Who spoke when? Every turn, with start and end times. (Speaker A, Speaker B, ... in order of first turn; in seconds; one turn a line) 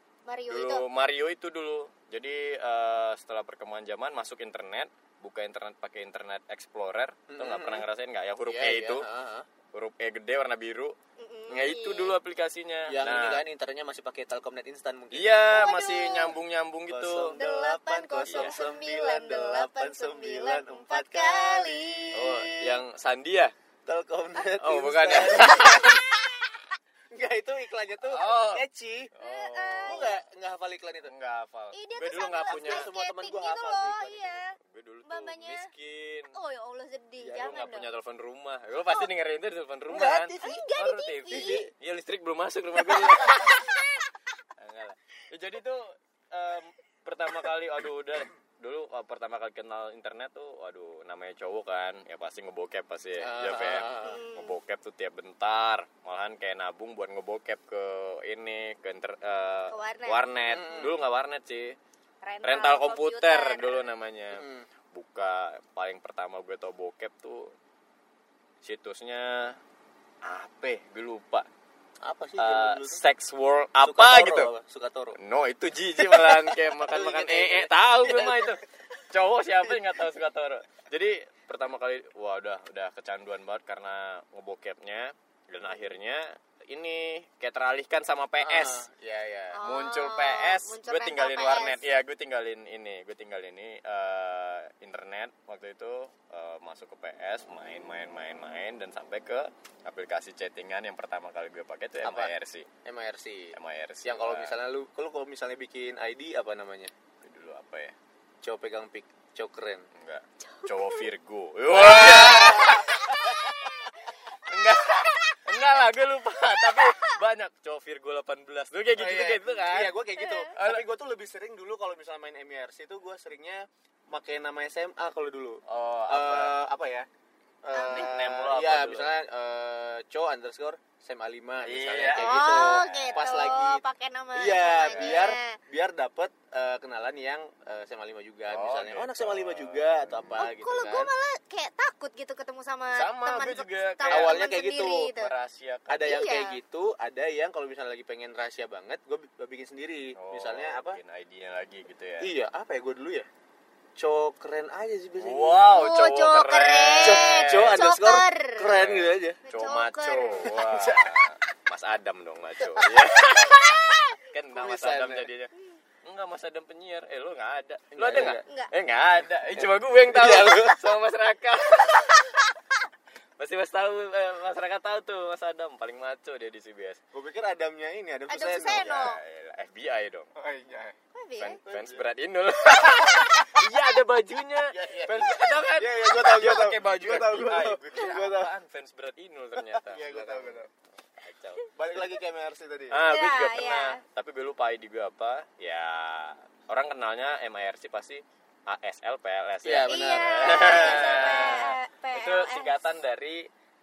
Speaker A: 0.2-0.8
Speaker B: 0.5-9.0
Speaker C: 7.3-7.8
Speaker C: 8.5-9.5
Speaker B: 9.7-10.9
Speaker A: 11.2-12.2
Speaker B: 11.5-13.4
Speaker C: 12.9-15.5
Speaker B: 15.1-17.4
Speaker A: 15.5-16.3
Speaker C: 16.9-22.6
Speaker A: 17.4-22.6
Speaker B: 18.3-18.6
Speaker B: 22.1-23.5
Speaker C: 23.9-26.0
Speaker B: 24.6-26.0
Speaker A: 25.4-26.4
Speaker C: 27.1-29.1
Speaker B: 28.0-28.6
Speaker B: 29.1-30.1
Speaker A: 29.2-30.1
Speaker C: 29.9-31.1
Speaker B: 31.1-32.9
Speaker A: 31.7-35.7
Speaker C: 32.5-34.4
Speaker B: 34.6-36.3
Speaker A: 36.3-37.9
Speaker C: 37.2-37.6
Speaker B: 37.3-43.8
Speaker A: 38.8-39.1
Speaker C: 39.9-40.7
Speaker A: 40.3-41.6
Speaker C: 41.3-41.7
Speaker A: 43.3-44.0
Speaker B: 44.6-61.8
Speaker C: 53.2-54.2
Speaker A: 54.0-54.6
Speaker A: 59.7-60.2
Speaker C: 60.5-61.0
Speaker A: 62.2-63.8
Speaker B: 62.4-67.5
Speaker C: 64.3-64.7
Speaker B: 68.6-69.6
Speaker B: 70.2-71.5
Speaker C: 72.0-73.0
Speaker B: 72.4-74.5
Speaker C: 73.8-75.2
Speaker B: 75.2-88.8
Speaker C: 76.0-78.6
Speaker C: 88.4-89.6
Speaker A: 89.5-91.8
Speaker B: 89.6-102.7
Speaker C: 102.0-102.3
Speaker C: 102.8-106.9
Speaker B: 103.5-104.5
Speaker B: 107.2-107.9
Speaker C: 108.4-109.9
Speaker B: 110.0-113.8
Speaker A: 110.5-111.0
Speaker C: 111.7-112.9
Speaker A: 112.5-113.9
Speaker B: 114.4-119.9
Speaker A: 116.7-117.1
Speaker C: 119.0-127.1
Speaker A: 120.2-120.4
Speaker B: 120.5-120.8
Speaker B: 125.7-126.5
Speaker C: 127.6-133.8
Speaker A: 127.7-128.1
Speaker B: 127.8-129.1
Speaker B: 131.6-133.2
Speaker A: 132.1-135.6
Speaker C: 134.3-141.1
Speaker B: 134.8-135.2
Speaker B: 138.5-140.4
Speaker A: 140.4-145.3
Speaker B: 142.9-144.4
Speaker C: 144.1-145.1
Speaker B: 145.2-146.3
Speaker C: 145.9-151.0
Speaker A: 146.0-146.6
Speaker B: 150.2-152.3
Speaker C: 152.2-153.3
Speaker C: 154.0-155.6
Speaker B: 155.2-157.9
Speaker A: 155.7-158.7
Speaker C: 157.0-159.4
Speaker B: 158.7-165.5
Speaker A: 159.4-160.6
Speaker C: 160.4-161.2
Speaker C: 162.6-162.9
Speaker A: 163.6-164.1
Speaker C: 164.5-165.3
Speaker B: 166.0-172.4
Speaker C: 167.9-168.4
Speaker C: 169.6-170.8
Speaker B: 173.4-177.0
Speaker C: 177.1-179.1
Speaker A: 178.3-179.2
Speaker B: 178.7-180.3
Speaker C: 180.4-182.0
Speaker A: 181.1-181.6
Speaker B: 181.4-190.6
Speaker C: 184.7-188.5
Speaker C: 189.6-190.7
Speaker B: 191.2-191.7
Speaker C: 191.8-193.0
Speaker B: 192.9-203.5
Speaker A: 193.1-194.0
Speaker C: 199.6-201.6
Speaker A: 199.8-202.8